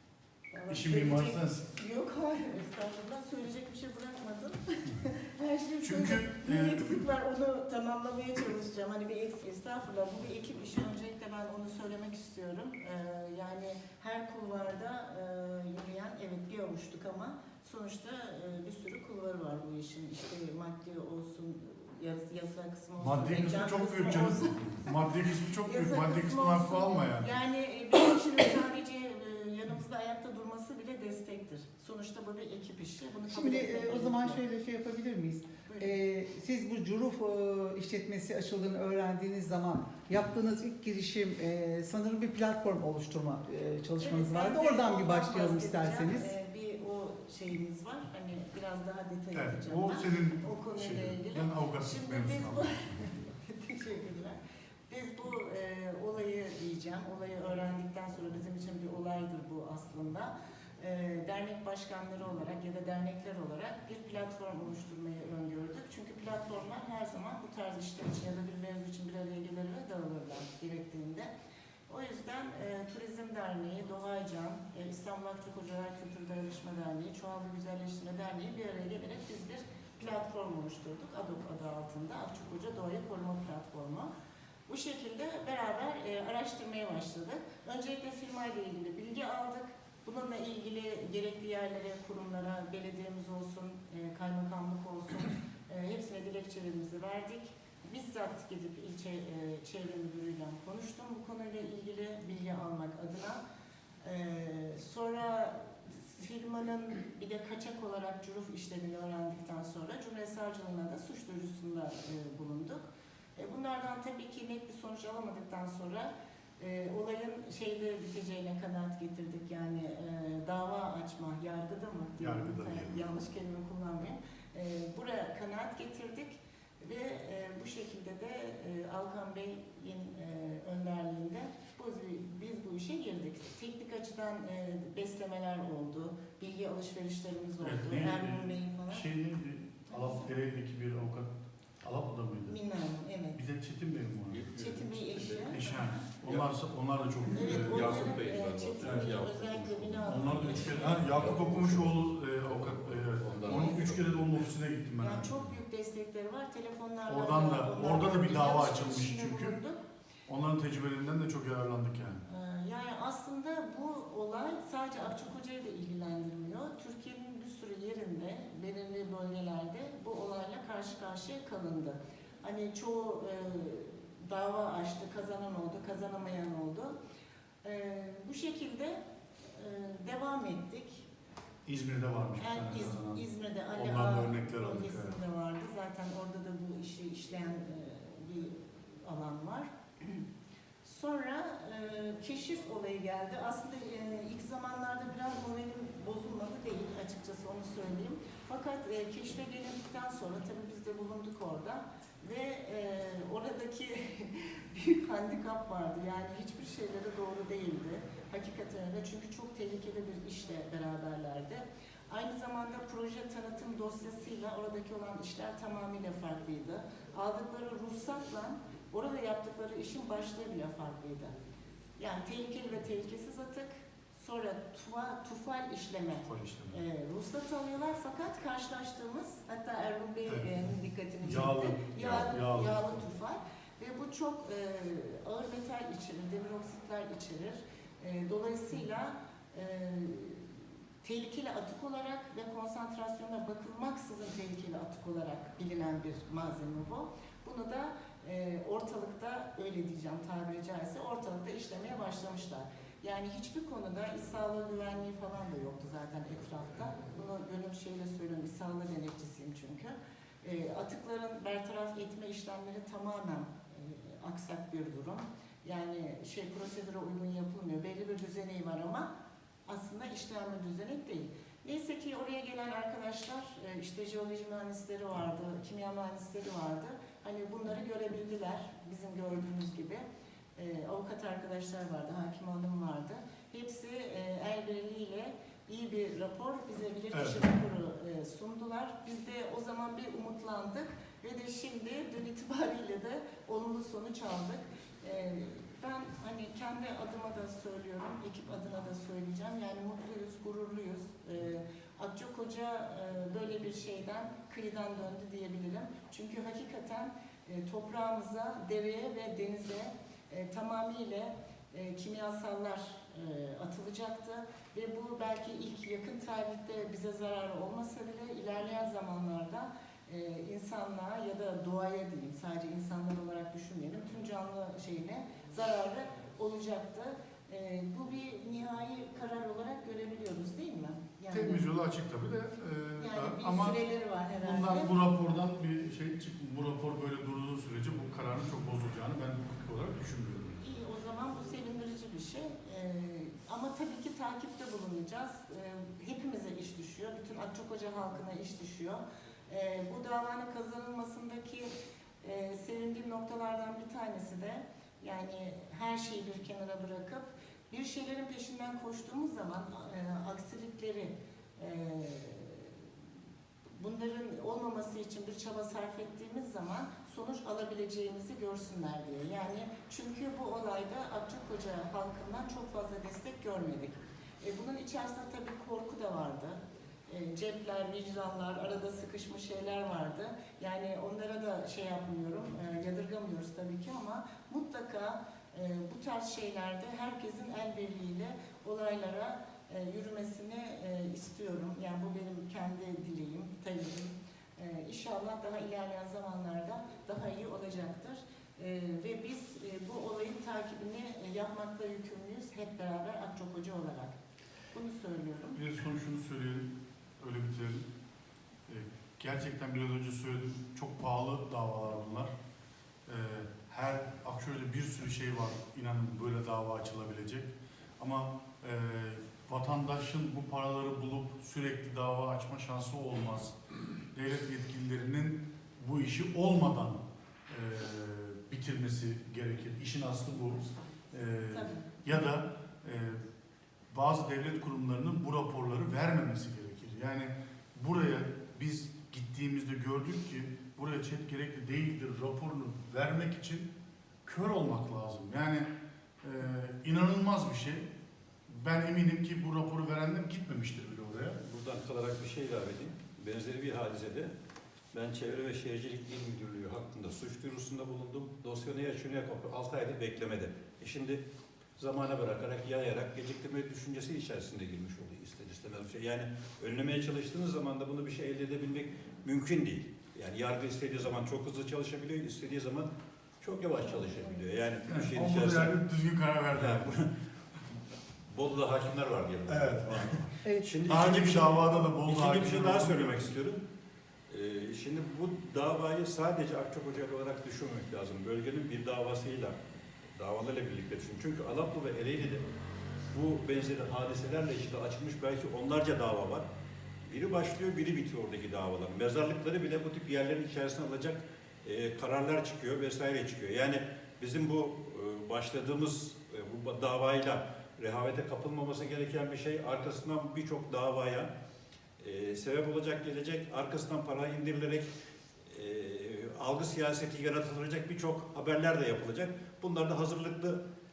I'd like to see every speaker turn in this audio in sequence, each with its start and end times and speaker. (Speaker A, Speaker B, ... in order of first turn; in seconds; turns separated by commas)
Speaker A: 0.5-25.0, Speaker B: 0.7-1.6, Speaker B: 5.8-6.9, Speaker B: 23.0-27.3, Speaker A: 25.6-34.4, Speaker C: 33.3-46.3, Speaker A: 35.6-35.9, Speaker A: 44.0-54.4, Speaker B: 49.3-52.8, Speaker A: 54.9-71.3, Speaker A: 71.9-84.1, Speaker A: 84.7-103.4, Speaker A: 104.0-139.1, Speaker B: 122.2-123.0, Speaker B: 137.6-142.6, Speaker A: 139.9-140.3, Speaker A: 142.5-143.4, Speaker B: 143.3-144.4, Speaker D: 144.3-145.7, Speaker A: 144.5-146.0, Speaker B: 145.5-148.1, Speaker D: 146.2-146.5, Speaker A: 147.3-151.3, Speaker D: 147.3-154.3, Speaker B: 148.8-149.1, Speaker B: 150.0-155.4, Speaker A: 153.5-153.9, Speaker A: 155.0-159.8, Speaker B: 157.1-159.6, Speaker B: 160.3-162.2, Speaker A: 162.3-177.0, Speaker A: 177.6-179.0, Speaker A: 179.5-181.1, Speaker B: 181.7-185.2, Speaker A: 182.4-190.2, Speaker A: 190.8-221.3, Speaker A: 222.0-269.1, Speaker B: 226.2-226.8, Speaker B: 231.2-233.0, Speaker A: 269.6-280.0, Speaker A: 280.6-331.7, Speaker B: 287.1-287.4, Speaker B: 331.3-333.8, Speaker A: 333.0-334.9, Speaker B: 334.4-340.6, Speaker A: 340.6-351.7, Speaker A: 352.2-362.8, Speaker A: 363.8-404.1, Speaker A: 404.7-405.6, Speaker B: 405.5-407.9, Speaker B: 408.7-412.3, Speaker B: 413.1-423.6, Speaker B: 424.1-433.2, Speaker A: 431.5-431.9, Speaker B: 433.9-443.7, Speaker B: 444.2-445.7, Speaker B: 446.2-447.9, Speaker B: 448.5-451.4, Speaker D: 451.4-454.3, Speaker D: 454.9-461.2, Speaker D: 461.8-472.9, Speaker D: 473.4-475.8, Speaker B: 474.9-477.0, Speaker D: 476.5-477.1, Speaker D: 478.2-483.6, Speaker B: 479.5-480.2, Speaker B: 480.9-483.3, Speaker D: 484.3-489.6, Speaker D: 490.1-492.5, Speaker D: 493.1-496.5, Speaker D: 497.0-511.3, Speaker D: 512.0-514.9, Speaker D: 515.5-520.6